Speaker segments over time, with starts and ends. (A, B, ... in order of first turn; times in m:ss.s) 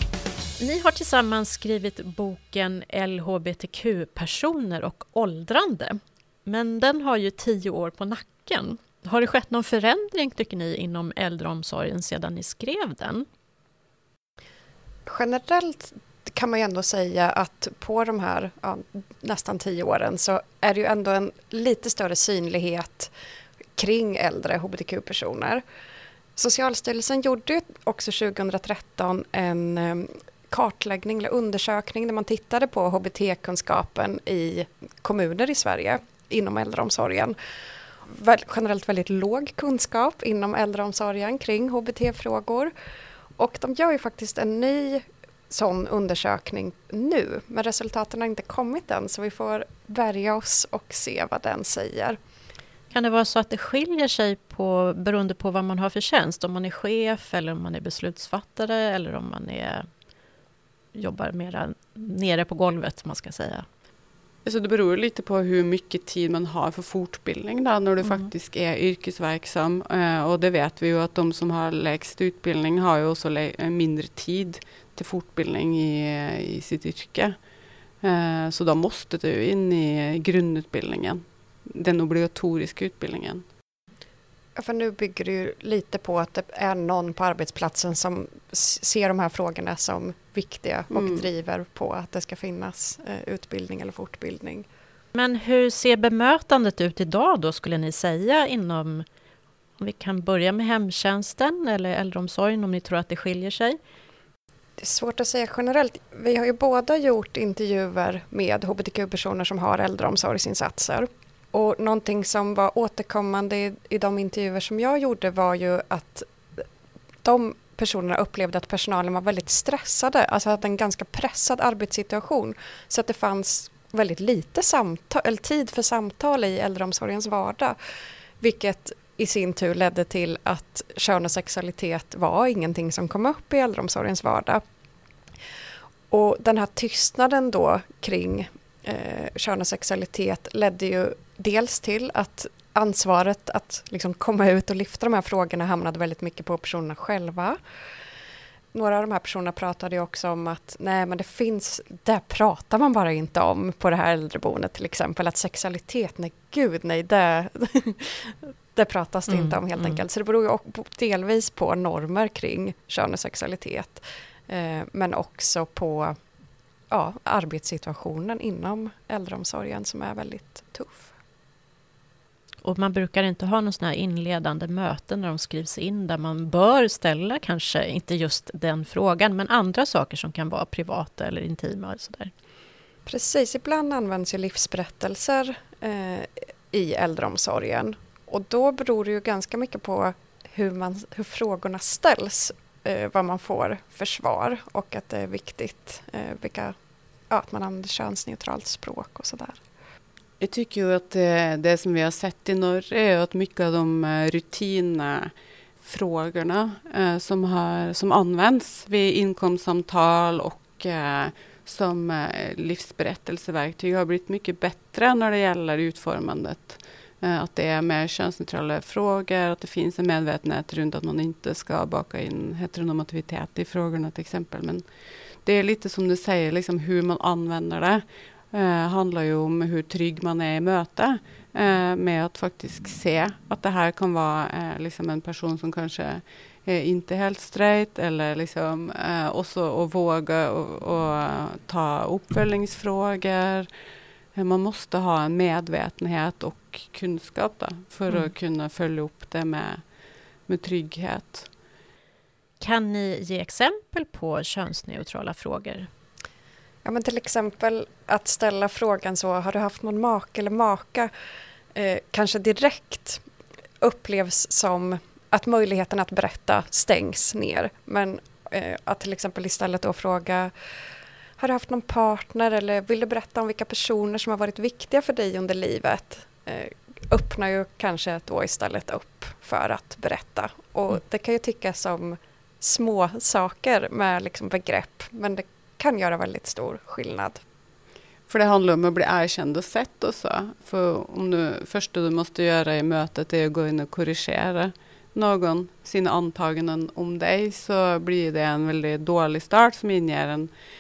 0:00.6-0:13.3 A
0:15.1-0:23.1 B
0:23.8-0:25.6 B
0:26.4-0:37.4 B
0:38.0-0:42.7 B
0:43.4-0:52.2 B
0:52.9-0:59.9 A
1:00.9-1:03.7 A
1:04.4-1:17.3 C
1:18.0-1:23.4 C
1:24.6-1:34.7 B
1:31.0-1:31.2 C
1:35.2-1:39.0 A
1:39.8-1:43.8 A
1:44.8-1:56.6 B
1:57.2-2:07.8 B
2:08.4-2:14.6 B
2:16.1-2:27.6 B
2:28.7-2:46.2 B
2:39.3-2:40.0 A
2:46.9-2:51.1 B
2:52.6-3:02.3 A
3:03.1-3:16.8 B
3:17.3-3:19.6 B
3:20.4-3:25.3 C
3:25.8-3:44.8 C
3:45.4-4:03.7 C
4:04.4-4:09.8 C
4:10.5-4:11.5 C
4:12.6-4:15.9 A
4:16.8-4:21.1 B
4:21.7-4:23.2 B
4:23.8-4:30.5 B
4:31.4-4:47.4 B
4:48.3-5:00.5 C